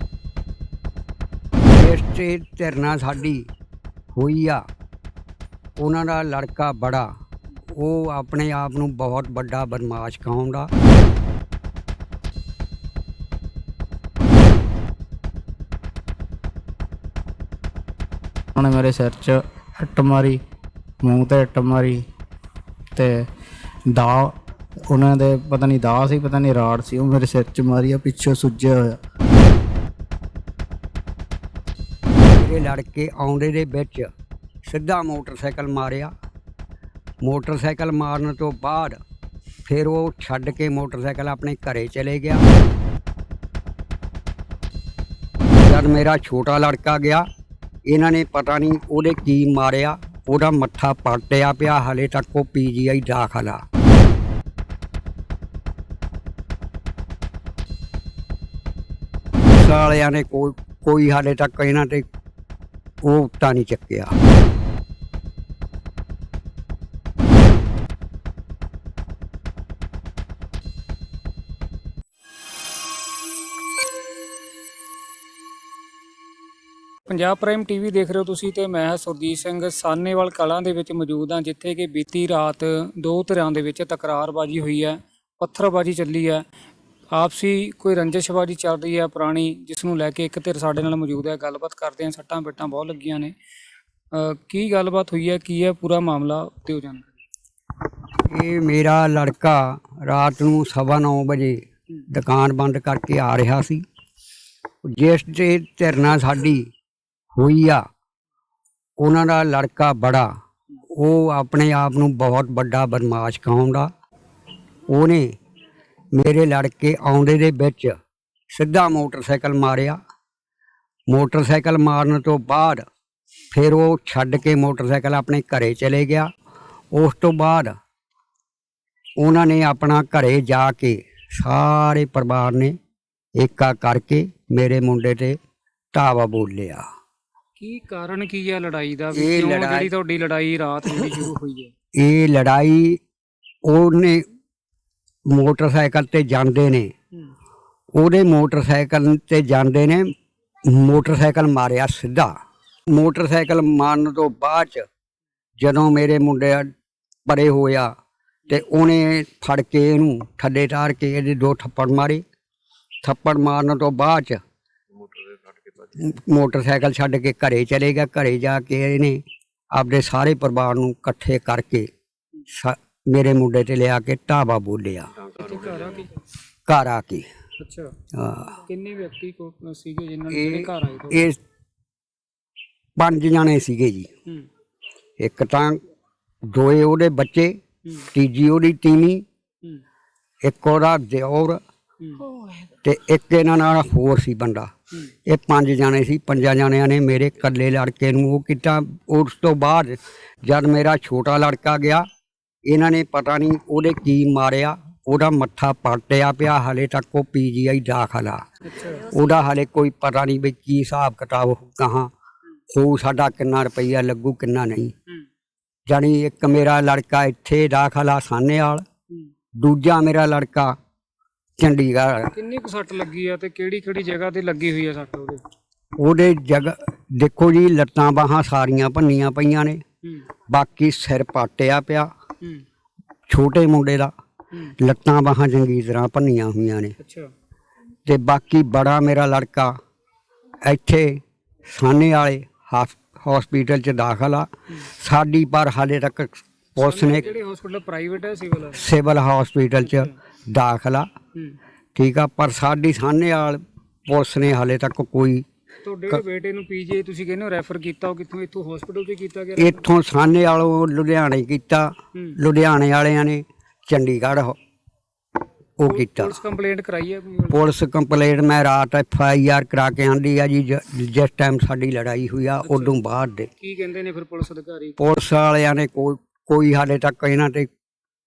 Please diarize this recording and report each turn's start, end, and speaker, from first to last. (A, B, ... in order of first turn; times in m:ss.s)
0:01.7-0:03.4 A
0:04.1-0:04.6 A
0:05.8-0:07.1 A
0:07.7-0:10.7 A
0:18.5-0:20.4 B
0:21.0-0:22.0 B
0:23.0-0:23.3 B
0:23.9-0:24.3 B
0:24.9-0:29.0 B
0:32.3-0:34.1 A
0:34.7-0:36.1 A
0:37.2-0:39.0 A
0:39.7-0:42.4 A
0:45.6-0:47.2 A
0:47.9-0:53.6 A
0:59.5-1:02.0 A
1:03.0-1:04.1 A
1:17.1-1:26.4 C
1:27.1-1:33.3 C
1:34.1-1:37.2 C
1:38.3-1:41.6 A
1:42.1-1:43.8 A
1:44.8-1:46.6 A
1:47.3-1:47.8 A
1:49.0-1:50.3 A
1:50.9-1:53.9 A
1:54.9-1:55.3 A
1:56.1-1:58.0 A
1:58.5-2:00.0 A
2:01.1-2:02.8 A
2:03.5-2:06.3 A
2:06.9-2:07.7 A
2:09.2-2:12.8 A
2:13.4-2:15.4 A
2:15.9-2:16.8 A
2:17.6-2:21.7 C
2:19.1-2:19.9 A
2:22.0-2:23.0 A
2:23.6-2:24.2 A
2:25.3-2:26.9 A
2:27.9-2:30.1 A
2:30.7-2:32.3 A
2:32.9-2:34.8 A
2:35.6-2:36.7 A
2:37.2-2:37.9 A
2:38.5-2:42.2 A
2:43.0-2:44.4 A
2:45.8-2:49.2 A
2:49.7-2:51.9 A
2:52.5-2:55.3 A
2:55.4-2:56.1 C
2:56.7-2:57.3 A
2:57.6-2:57.9 C
2:58.1-2:58.6 A
2:58.6-3:01.2 C
3:00.3-3:01.4 A
3:03.0-3:04.1 A
3:05.2-3:05.8 A
3:06.5-3:07.6 A
3:08.1-3:09.2 A
3:10.4-3:11.6 A
3:12.0-3:12.3 C
3:12.8-3:14.7 A
3:15.2-3:22.0 A
3:22.6-3:28.4 A
3:28.6-3:29.1 C
3:29.0-3:32.1 A
3:32.7-3:34.9 A
3:35.9-3:38.8 A
3:39.6-3:40.8 A
3:41.6-3:42.3 A
3:42.3-3:45.4 C
3:46.0-3:49.8 A
3:50.5-3:52.1 A
3:53.3-3:54.1 A
3:54.8-3:56.9 A
3:57.0-3:57.3 C
3:58.0-3:59.7 A
4:00.6-4:07.3 A
4:06.8-4:08.8 C
4:08.7-4:11.1 A
4:09.8-4:10.2 C
4:12.0-4:15.4 A
4:15.8-4:19.8 C
4:19.6-4:24.6 A
4:25.8-4:26.3 A
4:25.8-4:27.6 C
4:27.5-4:33.5 A
4:32.6-4:32.9 C
4:33.6-4:35.0 C
4:35.0-4:37.7 A